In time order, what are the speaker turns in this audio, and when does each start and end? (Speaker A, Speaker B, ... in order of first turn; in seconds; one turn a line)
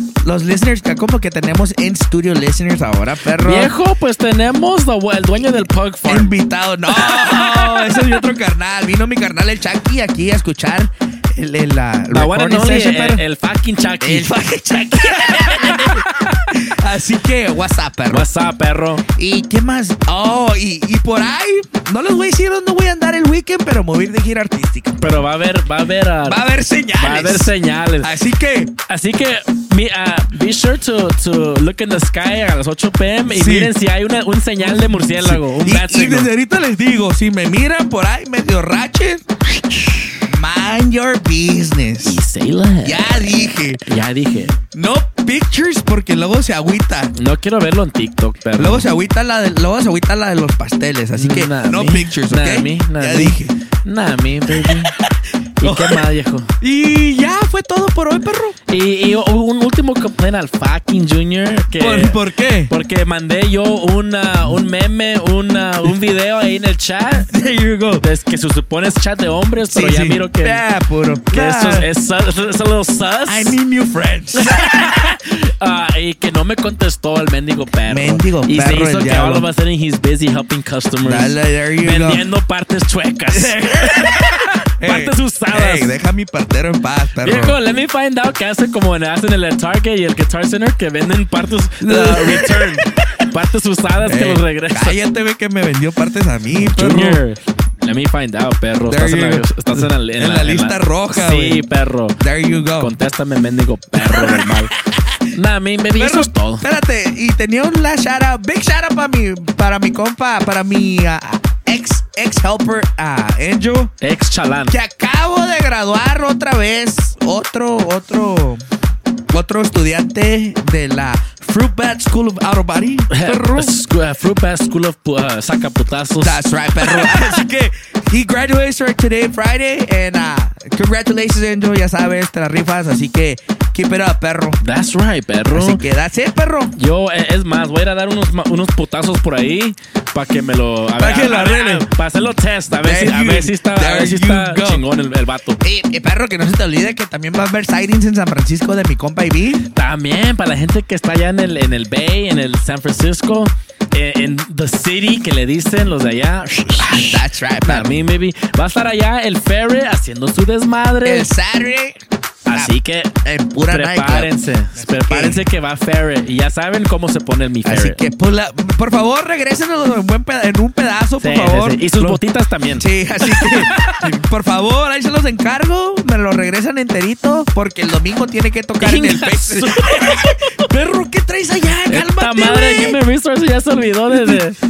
Speaker A: 0.2-3.7
Speaker B: 3.4-6.4
Speaker A: 6.1-13.2
Speaker B: 6.9-8.2
Speaker B: 12.1-14.3
Speaker A: 14.0-18.3
Speaker B: 15.0-16.5
Speaker B: 18.1-19.0
Speaker A: 19.2-25.1
Speaker B: 25.0-26.4
Speaker A: 26.2-28.7
Speaker B: 27.0-28.2
Speaker B: 28.9-36.3
Speaker A: 33.3-33.7
Speaker A: 34.6-39.2
Speaker A: 39.8-42.2
Speaker B: 42.0-44.6
Speaker A: 42.8-43.8
Speaker A: 44.7-47.1
Speaker B: 47.2-48.9
Speaker A: 48.6-53.5
Speaker B: 51.2-54.9
Speaker B: 55.6-56.5
Speaker A: 55.6-56.0
Speaker A: 56.6-58.6
Speaker B: 58.7-67.3
Speaker A: 61.8-62.7
Speaker A: 67.2-68.0
Speaker B: 68.0-70.6
Speaker A: 69.7-71.9
Speaker B: 71.3-73.6
Speaker A: 73.3-75.1
Speaker B: 74.4-85.9
Speaker A: 77.9-79.5
Speaker A: 81.0-82.2
Speaker A: 83.3-87.6
Speaker B: 87.2-95.0
Speaker A: 91.8-92.9
Speaker A: 94.0-97.2
Speaker B: 96.6-102.2
Speaker A: 98.9-101.6
Speaker A: 102.2-102.9
Speaker B: 102.8-104.7
Speaker A: 104.0-105.2
Speaker B: 105.3-106.7
Speaker A: 106.0-113.9
Speaker B: 114.0-114.8
Speaker A: 114.7-118.6
Speaker A: 119.3-123.7
Speaker B: 123.1-127.4
Speaker A: 126.2-134.6
Speaker B: 134.6-135.8
Speaker A: 135.5-136.7
Speaker B: 136.8-145.6
Speaker A: 141.0-141.9
Speaker A: 142.8-144.8
Speaker A: 145.6-149.6
Speaker B: 149.8-161.3
Speaker A: 156.8-158.0
Speaker A: 161.1-162.0
Speaker B: 162.5-163.1
Speaker A: 162.5-165.4
Speaker B: 163.7-168.0
Speaker A: 167.7-172.2
Speaker B: 171.2-174.0
Speaker A: 172.8-183.0
Speaker B: 178.8-180.7
Speaker B: 181.9-184.6
Speaker A: 184.1-184.4